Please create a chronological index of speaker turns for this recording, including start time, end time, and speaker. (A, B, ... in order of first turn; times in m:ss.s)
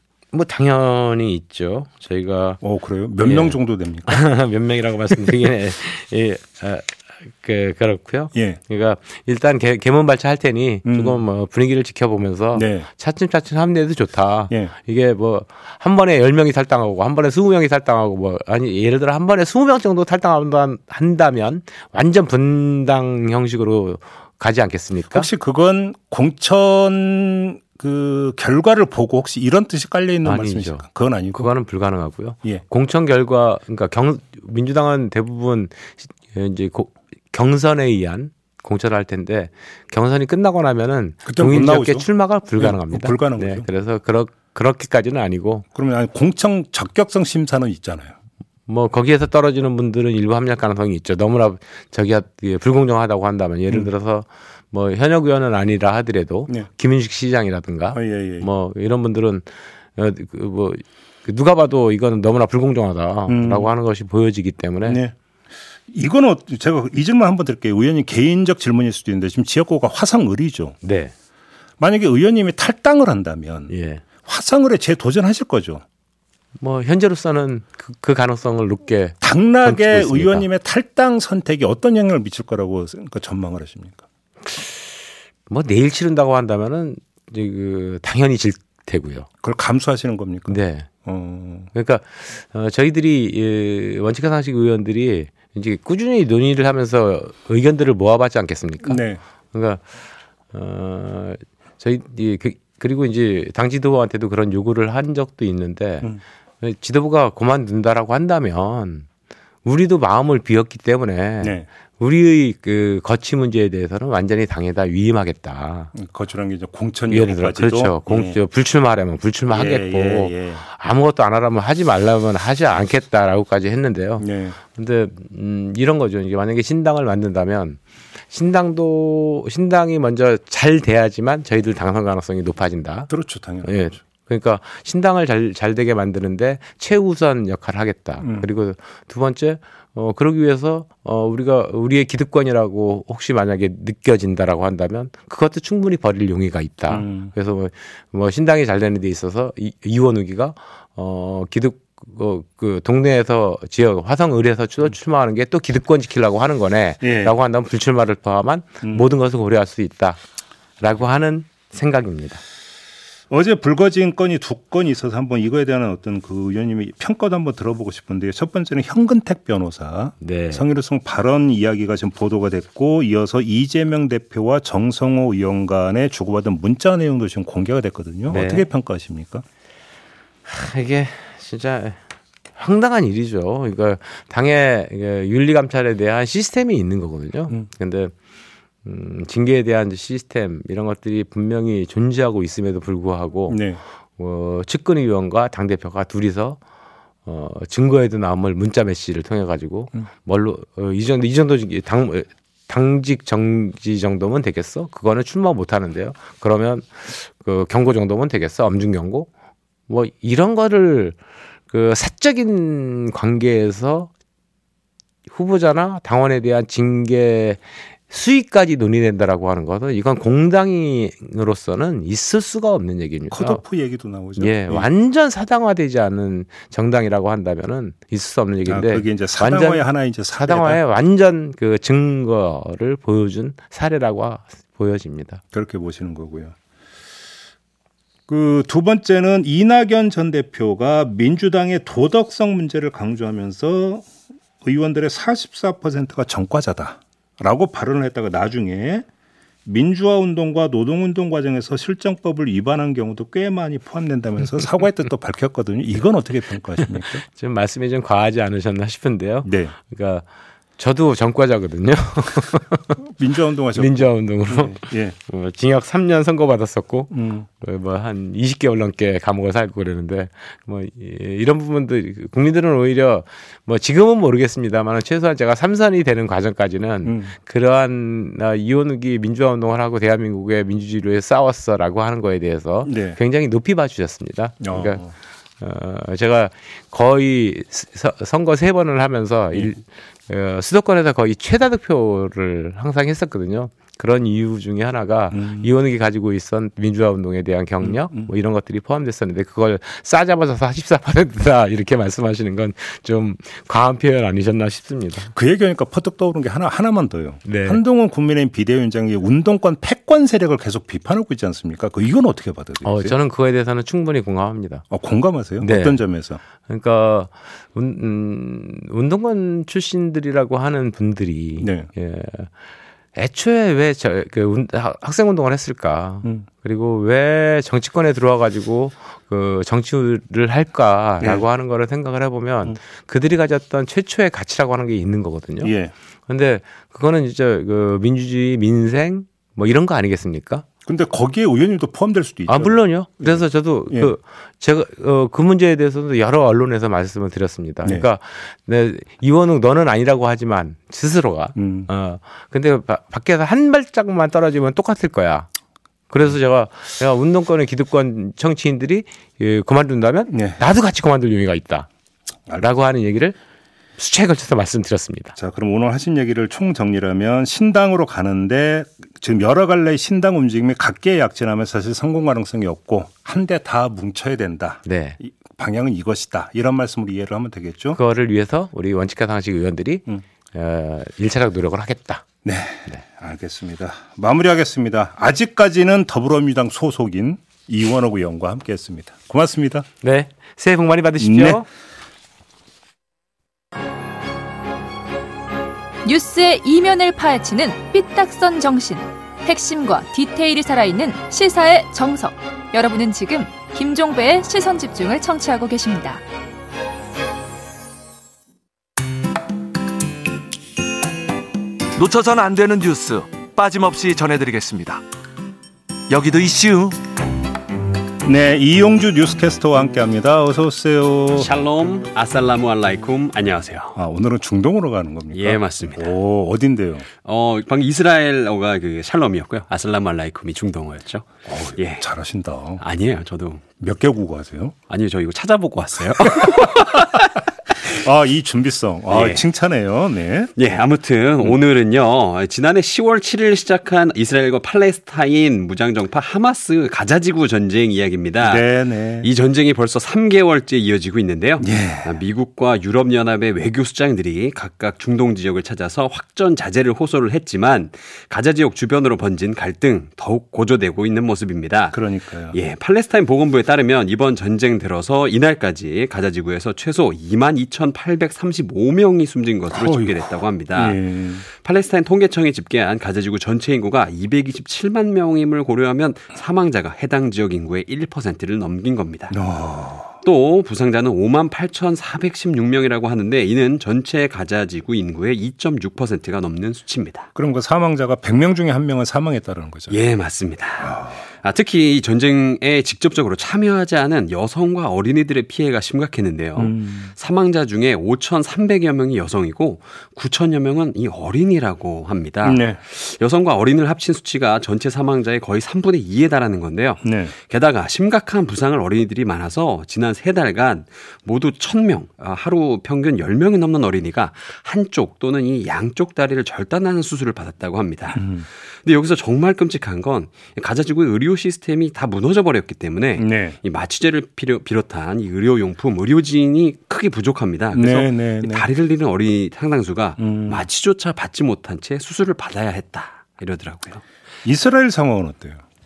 0:00.3-0:02.6 A
0:02.6-0:04.2 B
0:03.2-0:25.3 A
0:08.3-0:08.6 B
0:10.8-0:11.2 B
0:12.5-0:12.9 B
0:25.1-0:31.5 B
0:30.2-0:45.6 A
0:41.2-0:43.7 B
0:45.7-0:48.1 B
0:48.7-1:05.0 A
0:57.9-0:58.5 B
1:03.3-1:03.7 B
1:04.8-1:05.1 B
1:05.9-1:10.8 B
1:10.8-1:11.1 A
1:11.8-1:15.8 B
1:13.7-1:14.0 A
1:16.6-1:20.4 A
1:19.2-1:24.0 B
1:25.5-1:29.3 A
1:29.4-1:31.7 B
1:30.5-1:30.9 A
1:31.7-1:39.8 A
1:38.8-1:39.2 B
1:40.5-1:46.1 A
1:46.6-1:49.0 A
1:49.6-1:55.9 A
1:51.4-1:51.7 B
1:55.9-1:58.4 B
1:57.1-2:07.8 A
1:59.5-2:00.6 B
2:04.2-2:04.6 B
2:08.3-2:13.1 A
2:13.1-2:13.8 B
2:13.6-2:40.2 A
2:18.2-2:18.5 B
2:26.9-2:27.3 B
2:37.0-2:37.3 B
2:40.8-2:42.4 A
2:43.3-2:59.4 B
2:50.2-2:50.6 A
2:58.3-2:58.7 A
3:00.4-3:02.0 A
3:02.6-3:08.1 A
3:08.8-3:13.6 A
3:13.5-3:13.8 B
3:14.2-3:16.6 A
3:17.2-3:29.3 A
3:29.9-3:31.2 A
3:31.7-3:34.1 A
3:35.3-3:43.6 A
3:43.3-3:44.9 B
3:44.4-3:55.4 A
3:48.7-3:50.8 B
3:55.5-3:56.5 B
3:58.3-4:04.1 B
4:04.6-4:09.0 B
4:09.6-4:17.2 B
4:17.2-4:20.2 A
4:19.4-4:19.7 B
4:20.8-4:23.0 A
4:23.0-4:25.2 B
4:23.7-4:45.0 A
4:27.1-4:27.5 B
4:37.0-4:37.3 B
4:42.8-4:43.2 B
4:44.6-4:45.1 B
4:45.6-5:05.3 A
4:55.3-4:55.7 B
4:57.8-4:58.3 B
5:05.3-5:13.2 B
5:07.4-5:07.8 A
5:12.8-5:14.8 A
5:14.9-5:16.4 B
5:15.6-5:16.0 A
5:16.6-5:22.5 A
5:21.6-5:21.9 B
5:23.2-5:35.7 A
5:35.6-5:35.9 B
5:36.3-5:40.6 A
5:40.8-5:44.1 B
5:42.5-5:55.5 A
5:51.6-5:51.9 B
5:56.1-6:01.9 A
6:00.3-6:00.6 B
6:02.6-6:03.4 A
6:04.0-6:05.3 A
6:05.4-6:18.0 B
6:14.8-6:15.2 A
6:17.9-6:22.2 A
6:22.4-6:29.9 B
6:30.0-6:31.6 A
6:31.2-6:31.6 B
6:36.0-6:46.2 C
6:52.0-6:55.0 D
6:56.1-6:57.0 D
6:58.2-7:01.5 B
7:01.4-7:04.0 E
7:04.0-7:07.1 B
7:05.3-7:06.1 E
7:07.2-7:12.0 E
7:11.6-7:12.8 B
7:12.8-7:13.6 E
7:13.8-7:14.7 B
7:14.9-7:17.4 E
7:17.8-7:20.5 B
7:19.1-7:19.4 E
7:20.6-7:28.7 E
7:28.4-7:29.3 B
7:29.2-7:42.0 E
7:31.6-7:32.2 B
7:41.9-7:42.6 B
7:42.5-7:59.4 E
7:49.7-7:50.2 B
7:50.7-7:51.4 B
7:59.3-8:00.2 B
8:00.2-8:07.3 E
8:07.3-8:10.0 B
8:09.9-8:38.3 E
8:10.8-8:11.1 B
8:16.6-8:17.1 B
8:22.4-8:22.8 B
8:27.0-8:27.3 B
8:38.1-8:38.4 B
8:38.8-8:54.0 E
8:43.2-8:43.6 B
8:47.7-8:48.6 B
8:50.2-8:50.7 B
8:54.4-8:55.6 B